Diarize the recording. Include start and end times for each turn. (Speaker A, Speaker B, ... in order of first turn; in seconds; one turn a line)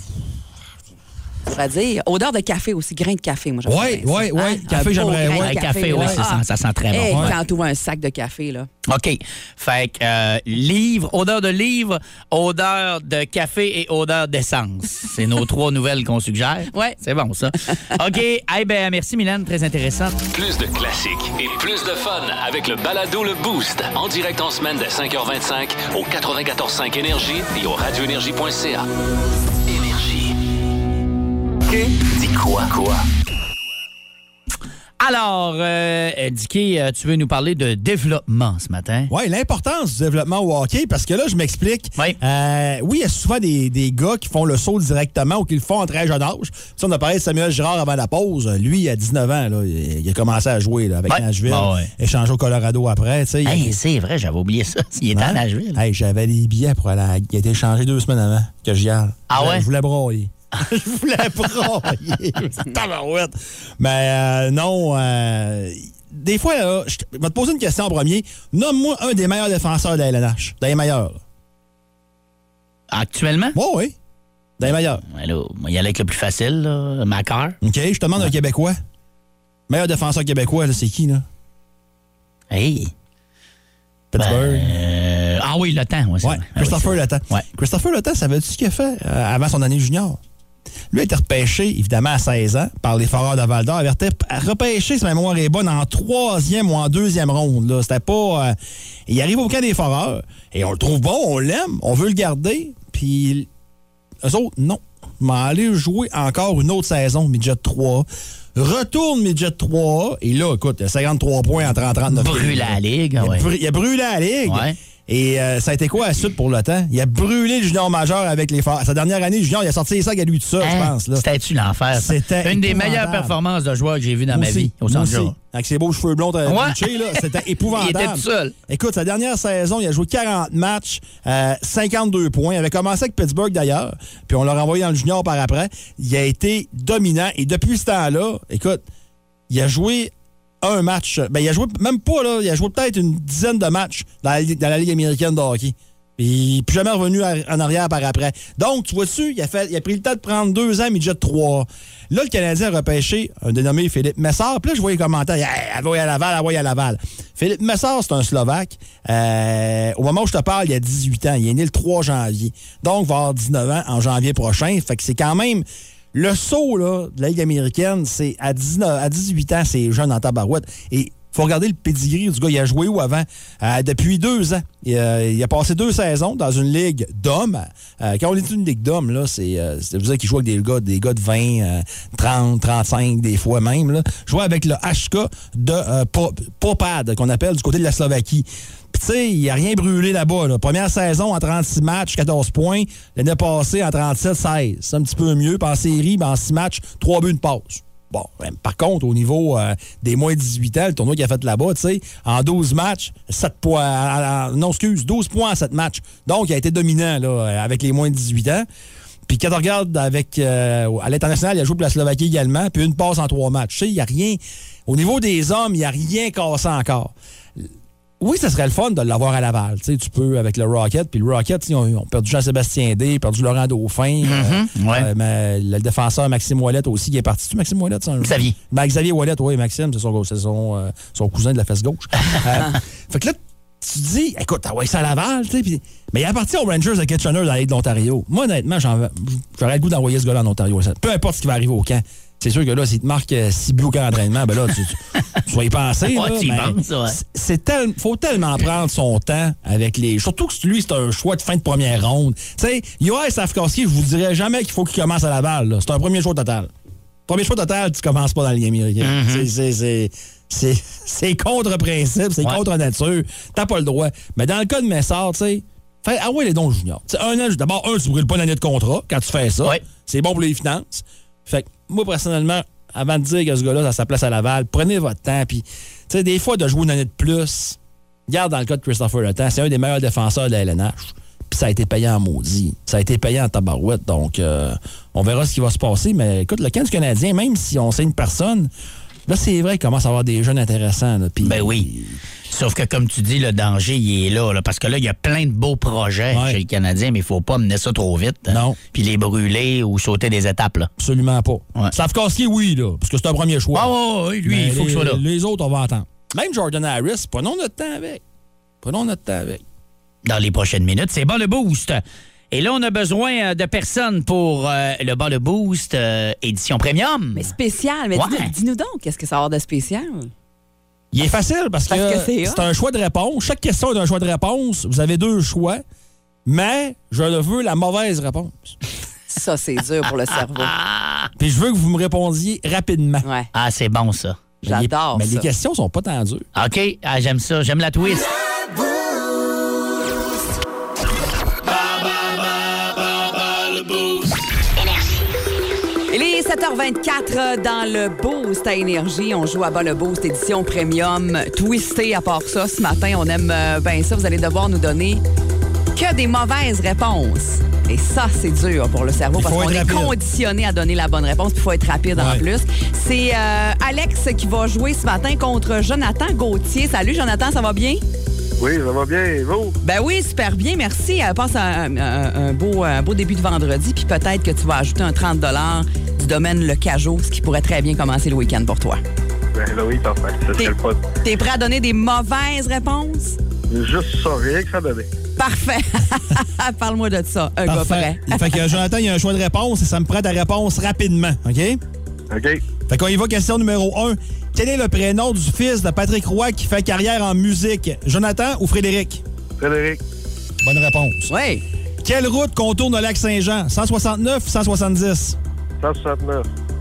Speaker A: 1.5-8.7
Speaker B: 3.7-6.2
Speaker C: 5.3-7.4
Speaker C: 8.9-20.2
Speaker A: 16.7-17.0
Speaker D: 20.3-28.9
Speaker D: 29.7-30.3
Speaker D: 31.7-33.0
Speaker C: 35.0-39.1
Speaker B: 39.1-53.7
Speaker C: 51.1-51.9
Speaker C: 53.5-55.8
Speaker B: 55.1-71.2
Speaker C: 59.3-59.7
Speaker C: 72.9-73.6
Speaker B: 73.5-74.0
Speaker B: 74.6-75.0
Speaker C: 75.0-77.6
Speaker B: 77.6-78.8
Speaker B: 79.7-81.2
Speaker C: 82.5-82.9
Speaker B: 84.1-84.7
Speaker C: 84.2-87.5
Speaker B: 86.2-90.2
Speaker B: 90.9-98.6
Speaker B: 99.1-103.5
Speaker B: 104.2-121.2
Speaker C: 112.1-113.5
Speaker C: 114.5-114.8
Speaker C: 120.6-125.3
Speaker B: 121.9-123.4
Speaker B: 124.3-138.8
Speaker C: 126.5-128.5
Speaker B: 139.5-208.7
Speaker B: 209.3-217.7
Speaker B: 218.2-256.7
Speaker C: 224.2-225.1
Speaker C: 228.2-228.6
Speaker C: 246.1-247.2
Speaker B: 257.3-288.7
Speaker C: 259.0-259.5
Speaker B: 289.3-292.2
Speaker C: 291.4-291.9
Speaker C: 292.5-300.9
Speaker B: 296.3-296.6
Speaker B: 298.5-298.8
Speaker B: 301.0-303.9
Speaker C: 303.7-305.2
Speaker B: 304.4-308.2
Speaker B: 308.8-309.6
Speaker C: 310.2-317.5
Speaker A: 317.3-320.3
Speaker C: 318.1-318.5
Speaker B: 321.1-325.8
Speaker A: 321.9-322.6
Speaker B: 326.5-328.8
Speaker A: 329.3-330.7
Speaker C: 330.6-331.3
Speaker B: 331.4-333.3
Speaker A: 333.2-333.5
Speaker C: 333.5-334.4
Speaker A: 334.6-335.5
Speaker B: 334.6-336.4
Speaker C: 336.6-338.3
Speaker A: 346.1-355.2
Speaker A: 355.9-368.0
Speaker B: 359.4-360.1
Speaker B: 362.1-362.4
Speaker E: 368.6-369.8
Speaker A: 369.8-379.0
Speaker E: 379.5-381.0
Speaker A: 380.6-383.4
Speaker E: 383.7-385.1
Speaker A: 385.4-388.7
Speaker B: 387.6-391.8
Speaker E: 392.3-392.6
Speaker B: 392.9-399.2
Speaker E: 399.6-400.0
Speaker B: 400.6-401.3
Speaker A: 401.3-401.6
Speaker B: 402.0-405.4
Speaker E: 405.8-406.5